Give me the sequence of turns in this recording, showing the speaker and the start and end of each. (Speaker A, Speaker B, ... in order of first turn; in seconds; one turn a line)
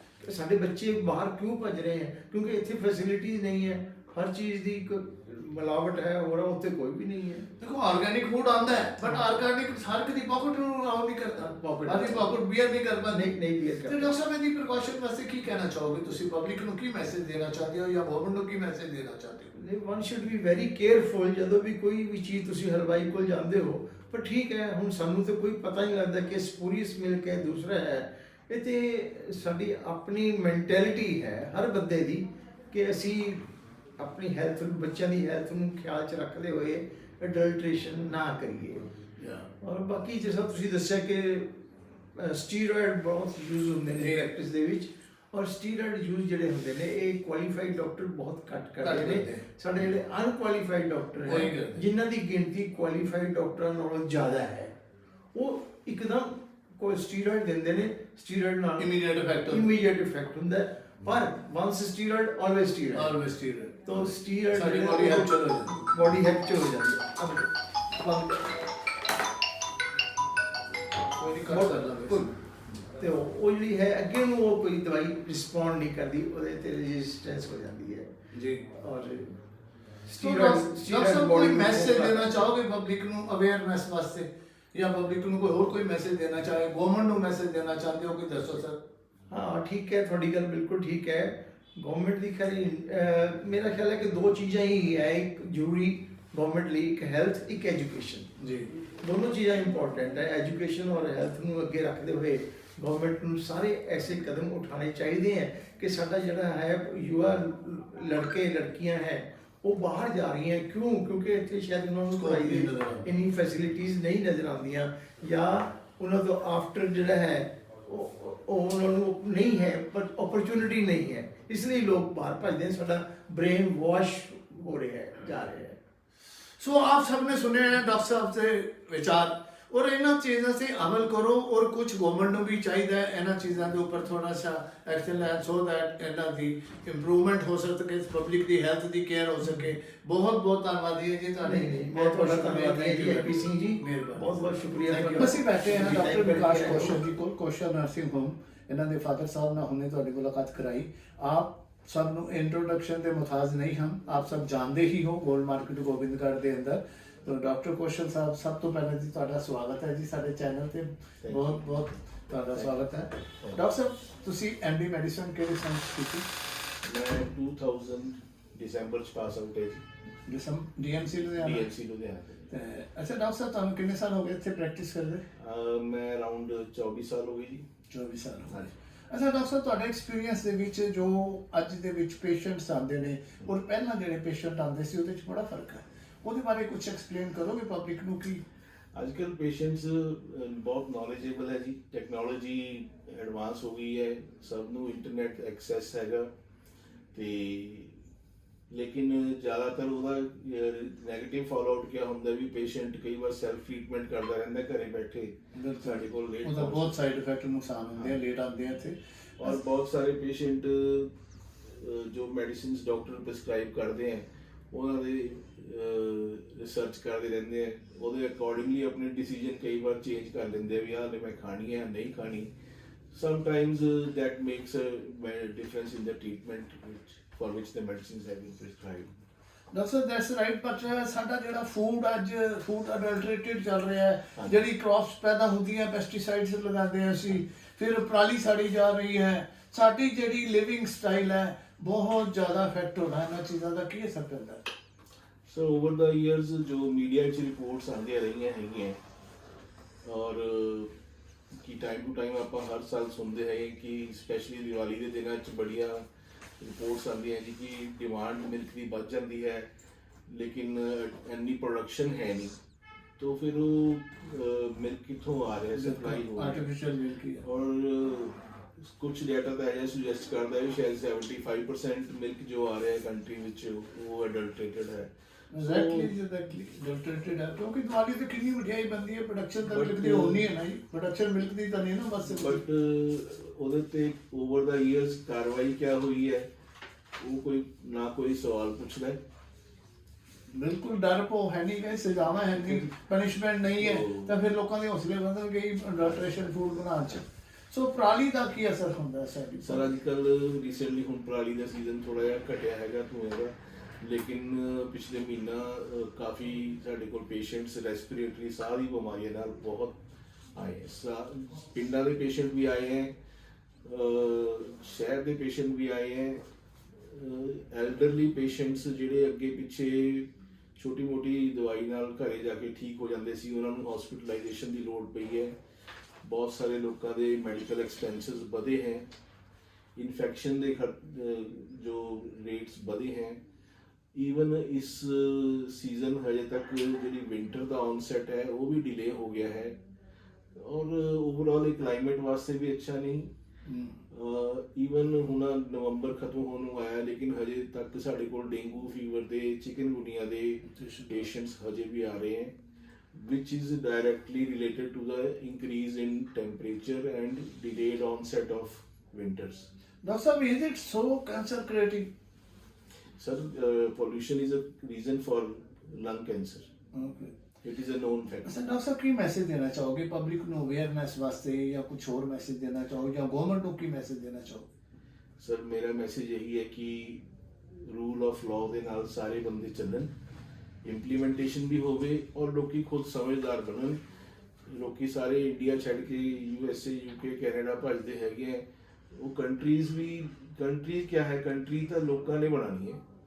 Speaker A: 0.2-7.5
Speaker B: 7.6-13.3
Speaker A: 9.1-9.4
Speaker A: 11.3-12.4
Speaker A: 13.1-14.1
Speaker B: 13.8-19.5
Speaker A: 19.5-38.9
Speaker B: 39.2-39.5
Speaker A: 39.6-54.7
Speaker B: 43.9-44.3
Speaker B: 48.8-49.4
Speaker B: 51.2-51.8
Speaker A: 55.3-58.9
Speaker B: 58.8-59.7
Speaker A: 59.5-63.2
Speaker B: 62.9-63.8
Speaker A: 63.9-68.5
Speaker B: 64.5-65.8
Speaker B: 71.1-72.3
Speaker A: 71.5-78.1
Speaker B: 78.3-78.7
Speaker A: 78.7-79.4
Speaker A: 80.0-82.4
Speaker B: 80.2-88.8
Speaker A: 89.3-98.3
Speaker B: 98.4-98.7
Speaker A: 99.0-125.8
Speaker B: 112.1-113.1
Speaker B: 126.6-144.3
Speaker A: 141.4-147.0
Speaker B: 144.9-166.2
Speaker C: 161.2-161.8
Speaker C: 166.8-169.8
Speaker B: 170.3-171.6
Speaker C: 171.4-172.5
Speaker B: 172.5-175.2
Speaker C: 175.3-177.6
Speaker B: 177.9-188.4
Speaker C: 188.9-196.3
Speaker C: 197.1-197.9
Speaker C: 198.7-207.0
Speaker B: 205.5-209.0
Speaker C: 209.4-211.1
Speaker C: 211.6-222.5
Speaker C: 223.1-229.1
Speaker B: 229.7-244.6
Speaker C: 245.5-249.0
Speaker C: 250.0-250.9
Speaker C: 251.6-256.1
Speaker C: 256.6-259.7
Speaker C: 260.3-262.6
Speaker C: 263.2-266.7
Speaker B: 265.7-267.4
Speaker C: 267.4-276.1
Speaker B: 275.5-282.6
Speaker C: 279.6-280.5
Speaker C: 282.2-286.5
Speaker C: 287.2-289.2
Speaker B: 290.5-299.9
Speaker C: 292.5-292.9
Speaker C: 293.8-294.4
Speaker C: 299.6-310.0
Speaker C: 310.5-313.1
Speaker C: 313.8-316.4
Speaker C: 317.0-325.5
Speaker C: 326.2-329.1
Speaker C: 329.9-333.4
Speaker C: 334.1-339.8
Speaker C: 340.5-343.3
Speaker B: 343.6-344.0
Speaker C: 344.1-352.5
Speaker B: 350.7-351.2
Speaker C: 353.1-359.7
Speaker B: 360.0-362.1
Speaker C: 363.2-366.7
Speaker B: 366.9-367.3
Speaker C: 367.6-368.5
Speaker B: 368.4-374.6
Speaker C: 375.4-380.1
Speaker C: 380.8-384.0
Speaker C: 384.6-393.0